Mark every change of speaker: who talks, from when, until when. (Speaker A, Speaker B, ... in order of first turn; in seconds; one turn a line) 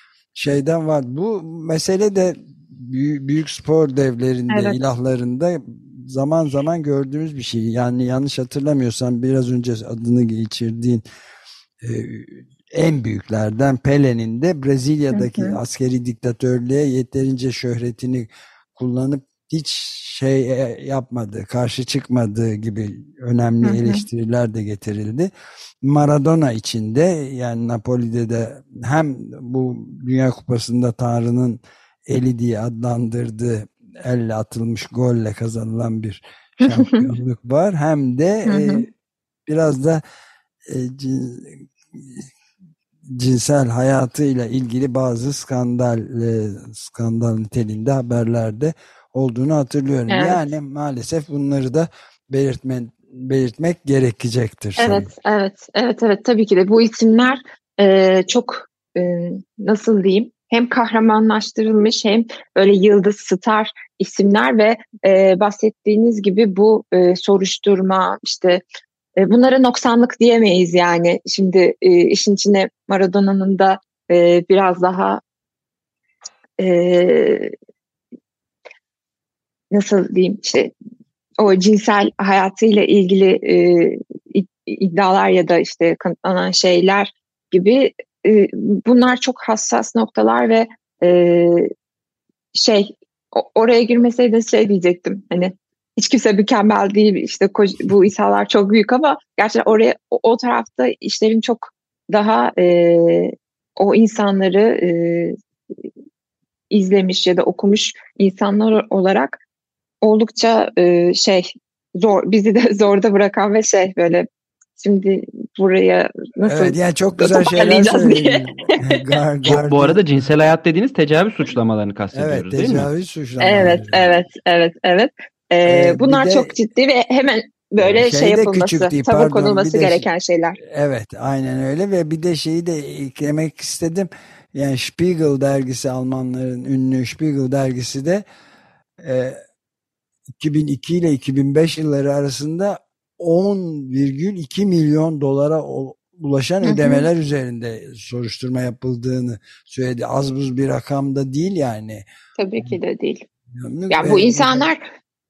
Speaker A: 0.3-11.0
Speaker B: 4.5-4.8
Speaker A: 11.8-25.3
Speaker B: 15.1-15.6
Speaker B: 23.6-24.0
Speaker A: 25.8-38.9
Speaker B: 36.6-37.0
Speaker B: 38.5-38.9
Speaker A: 39.5-40.0
Speaker A: 40.7-42.3
Speaker A: 43.1-55.1
Speaker B: 50.1-50.4
Speaker B: 54.8-68.6
Speaker B: 69.2-75.2
Speaker B: 76.6-77.5
Speaker B: 79.7-80.7
Speaker B: 81.4-91.7
Speaker B: 92.5-105.4
Speaker B: 106.7-109.4
Speaker B: 110.0-119.2
Speaker A: 116.4-120.3
Speaker C: 119.4-122.9
Speaker A: 122.1-124.2
Speaker B: 123.4-130.6
Speaker A: 125.6-126.5
Speaker A: 127.8-130.1
Speaker A: 130.6-138.2
Speaker A: 139.0-139.4
Speaker A: 140.3-152.1
Speaker B: 146.6-147.1
Speaker B: 152.4-153.2
Speaker A: 153.5-154.7
Speaker B: 153.9-154.9